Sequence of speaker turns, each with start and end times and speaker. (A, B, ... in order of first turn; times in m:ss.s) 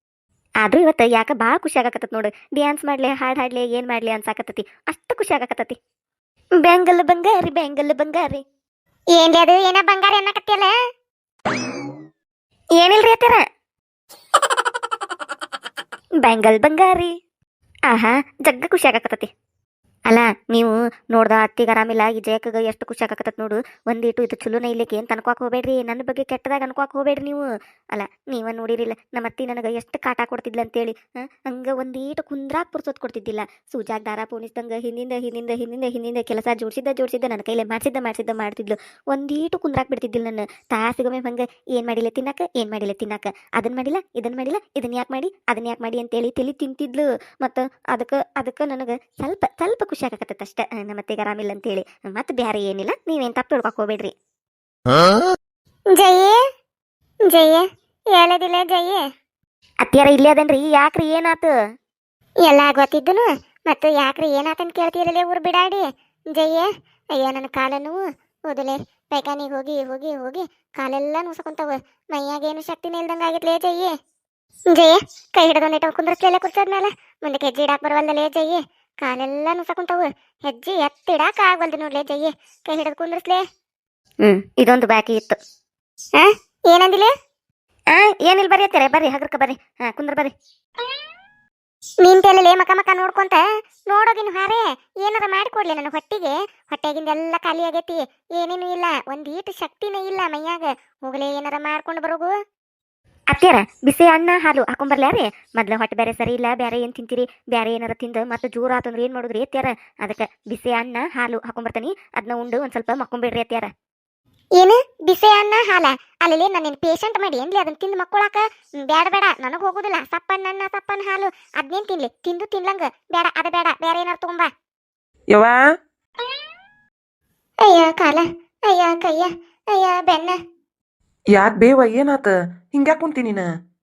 0:00.6-0:05.8 A
0:06.6-0:08.4 A
0:09.2-0:10.7 B
0:12.8-0:13.4 A
0:16.2-0:17.1 A
0:17.9-0:19.3 A
0:20.1-0:30.9 A
0:31.5-0:54.1 A
0:56.0-0:56.4 B
0:57.3-0:59.0 B
0:59.8-1:01.5 A
1:02.4-1:13.9 B
1:14.7-1:23.4 B
1:24.2-1:25.4 A
1:26.2-1:27.1 B
1:27.9-1:30.3 A
1:32.0-1:42.3 B
1:43.3-1:53.7 A
1:54.6-2:04.5 B
2:05.3-2:05.6 C
2:07.6-2:10.4 B
2:11.3-2:13.4 C